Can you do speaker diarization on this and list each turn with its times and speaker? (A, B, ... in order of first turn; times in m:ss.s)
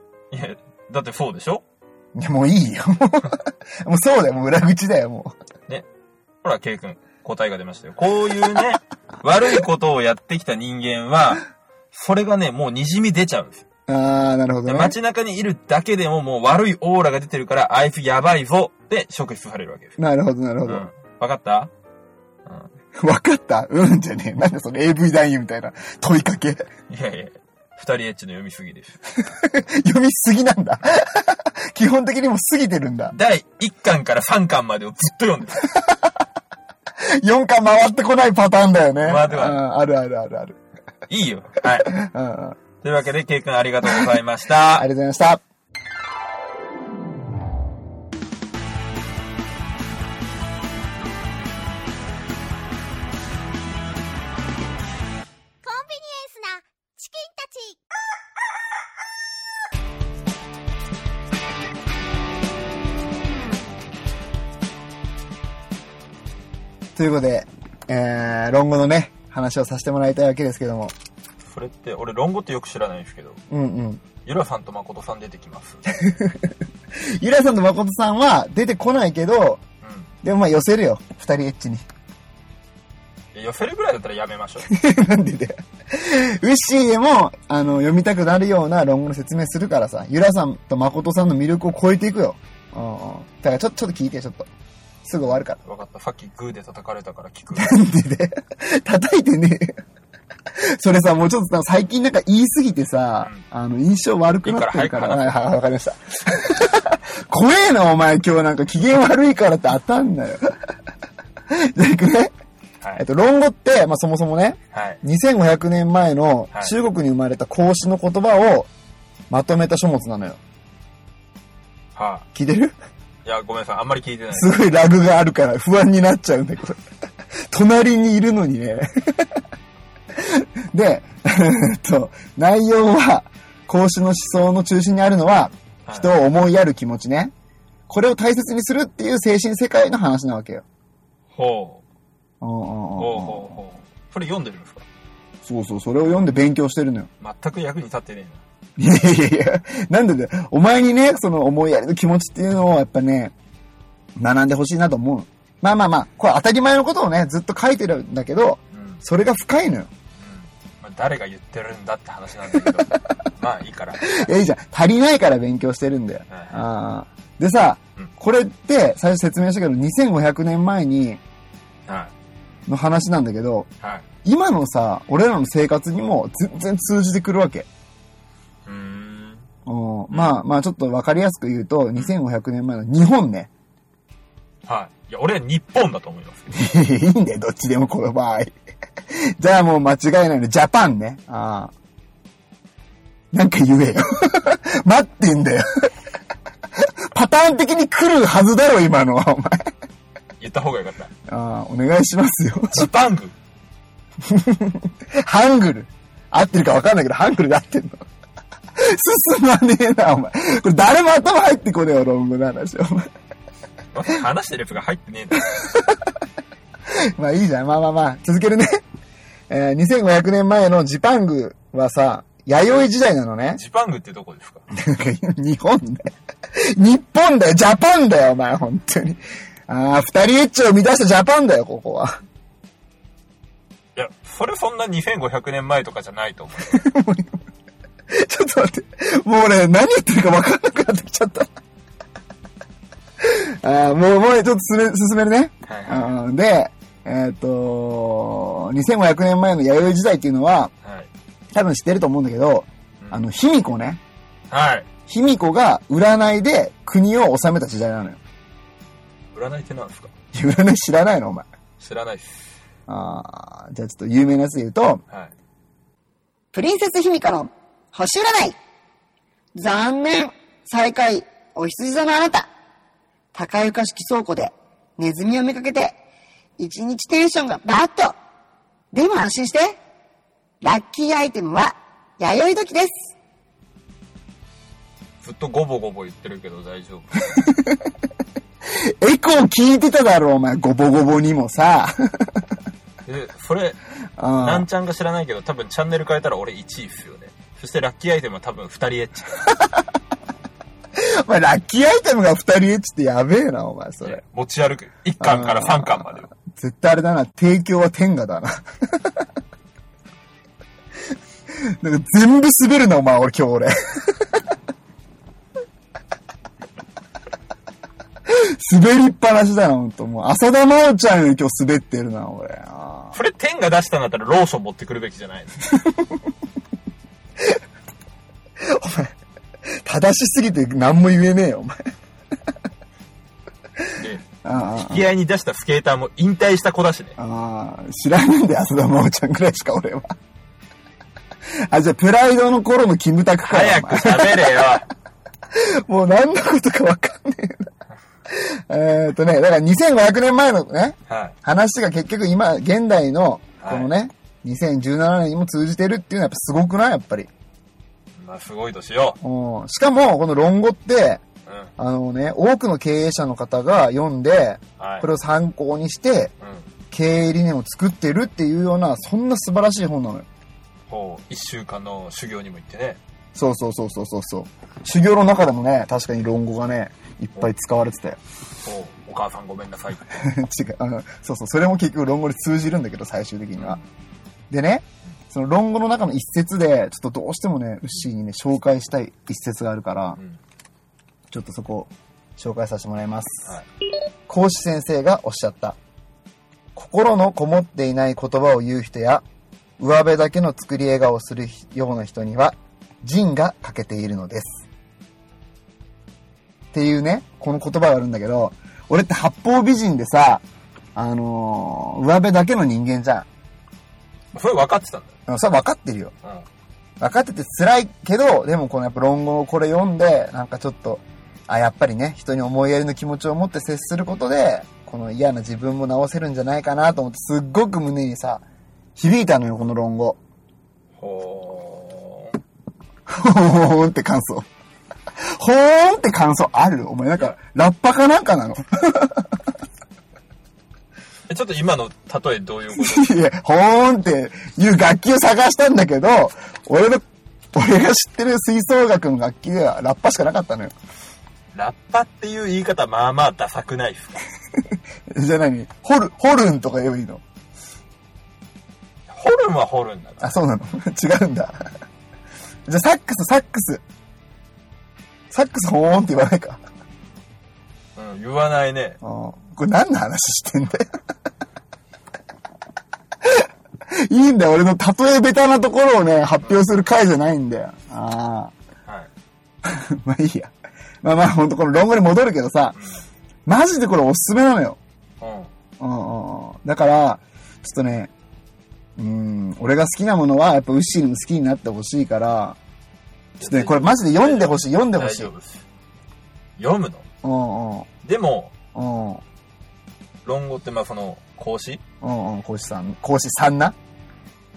0:00.3-0:01.6 A
0:02.1-0:05.3 B
0:06.4-0:13.6 A
0:13.9-0:14.9 B
0:14.6-0:20.0 A
0:20.0-0:20.9 B
0:20.6-0:21.7 A
0:22.4-0:22.7 A
0:23.0-0:26.6 B
0:26.9-0:29.0 A
0:29.2-0:33.2 B
0:33.1-0:35.7 A
0:37.2-0:40.6 B
0:39.0-0:39.6 A
0:41.1-0:42.0 A
0:41.8-0:42.6 B
0:42.8-0:44.9 A
0:44.8-0:45.4 B
0:55.6-0:57.8 C
1:06.9-1:10.9 B
1:11.4-1:13.4 A
1:13.5-1:14.0 B
1:14.2-1:16.0 A
1:16.0-1:16.5 B
1:17.2-1:19.6 B
1:19.8-1:20.1 A
1:20.2-1:21.8 B
1:23.3-1:24.7 A
1:24.6-1:34.5 B
1:35.0-1:35.6 B
1:35.6-1:37.8 A
1:37.5-1:39.8 B
1:40.6-1:50.4 B
1:44.4-1:45.3 A
1:51.5-1:52.3 B
1:53.0-1:58.7 B
1:54.7-1:55.0 A
1:59.3-2:00.4 B
2:01.9-2:02.2 A
2:02.3-2:02.7 B
2:03.2-2:04.6 A
2:04.3-2:06.8 B
2:07.5-2:09.4 B
2:10.2-2:17.3 B
2:15.8-2:16.2 A
2:17.9-2:20.6 B
2:21.3-2:21.8 A
2:22.4-2:23.6 B
2:23.0-2:24.8 A
2:25.4-2:27.1 B
2:27.2-2:28.4 A
2:28.8-2:33.3 B
2:34.2-2:39.9 B
2:38.7-2:39.0 A
2:40.2-2:44.3 A
2:44.0-2:51.2 B
2:46.3-2:46.6 A
2:51.9-2:52.1 A
2:52.7-2:53.7 B
2:54.2-2:57.7 B
2:58.6-2:59.4 A
2:59.6-3:03.5 B
3:00.1-3:00.4 A
3:04.6-3:06.5 A
3:06.5-3:08.5 B
3:09.1-3:11.7 B
3:13.3-3:15.9 B
3:16.8-3:19.7 B
3:20.4-3:21.1 A
3:21.3-3:22.9 B
3:22.7-3:23.3 A
3:24.2-3:28.0 B
3:28.8-3:33.1 B
3:33.9-3:35.6 A
3:37.1-3:38.8 B
3:39.5-3:43.6 B
3:43.5-3:44.6 A
3:44.7-3:52.1 B
3:54.0-3:56.8 A
3:56.6-3:57.4 B
3:58.1-4:01.5 B
4:03.2-4:10.7 B
4:05.6-4:06.2 A
4:10.8-4:11.1 A
4:11.5-4:14.0 B
4:13.0-4:13.2 A
4:14.5-4:14.9 A
4:15.1-4:18.2 B
4:19.3-4:20.1 A
4:20.3-4:21.5 B
4:21.8-4:22.5 A
4:22.9-4:25.0 B
4:26.5-4:28.6 D
4:29.6-4:32.5 D
4:33.3-4:35.9 D
4:36.6-4:38.1 D
4:38.9-4:39.8 D
4:40.6-4:42.9 D
4:42.2-4:42.6 C
4:45.2-4:47.5 A
4:47.4-4:47.8 B
4:49.0-4:52.4 B
4:53.0-4:53.8 A
4:54.2-4:54.7 B
4:54.4-4:59.4 A
5:01.0-5:04.2 B
5:04.0-5:06.3 A
5:05.2-5:09.2 B
5:11.6-5:14.4 B
5:18.3-5:23.2 B
5:23.1-5:25.6 A
5:25.8-5:26.2 B
5:28.6-5:29.1 B
5:29.8-5:31.8 B
5:34.0-5:34.2 A
5:34.4-5:35.1 B
5:34.7-5:37.2 A
5:37.2-5:40.1 B
5:41.7-5:44.7 B
5:43.4-5:44.9 A
5:45.5-5:47.7 B
5:48.3-5:57.3 B
5:51.1-5:51.4 A
5:53.6-5:53.9 A
5:58.2-5:59.2 A
5:59.2-6:01.2 B
6:01.4-6:01.7 A
6:01.8-6:06.3 B
6:04.8-6:05.1 A
6:06.4-6:06.7 A
6:06.9-6:10.2 B
6:10.9-6:13.0 A
6:13.3-6:18.2 B
6:18.6-6:20.2 A
6:20.1-6:23.8 B
6:23.6-6:23.8 A
6:24.5-6:30.2 B
6:31.3-6:33.6 B
6:34.3-6:35.8 B
6:36.7-6:39.2 B
6:39.8-6:44.6 B
6:46.7-6:50.4 B
6:50.9-6:53.3 B
6:54.3-6:55.1 A
6:55.3-6:56.1 B
6:57.0-7:08.4 B
7:09.0-7:10.2 B
7:11.0-7:12.4 A
7:13.1-7:14.5 B
7:15.4-7:19.4 B
7:21.3-7:23.2 A
7:22.8-7:27.0 B
7:27.5-7:30.7 B
7:31.5-7:34.2 A
7:35.1-7:37.2 B
7:39.1-7:40.3 A
7:40.2-7:41.7 B
7:42.7-7:43.8 B
7:45.3-7:46.6 B
7:48.0-7:49.0 A
7:49.0-7:50.9 B
7:53.2-7:58.5 B
7:59.6-8:00.5 B
8:01.0-8:02.8 B
8:02.7-8:03.0 A
8:03.4-8:04.8 B
8:05.2-8:05.5 A
8:05.8-8:08.1 B
8:09.0-8:12.6 B
8:13.4-8:15.6 A
8:13.4-8:15.3 B
8:16.6-8:17.0 A
8:17.2-8:17.9 B
8:18.0-8:18.5 A
8:18.7-8:19.2 B
8:20.2-8:21.8 A
8:22.0-8:23.7 B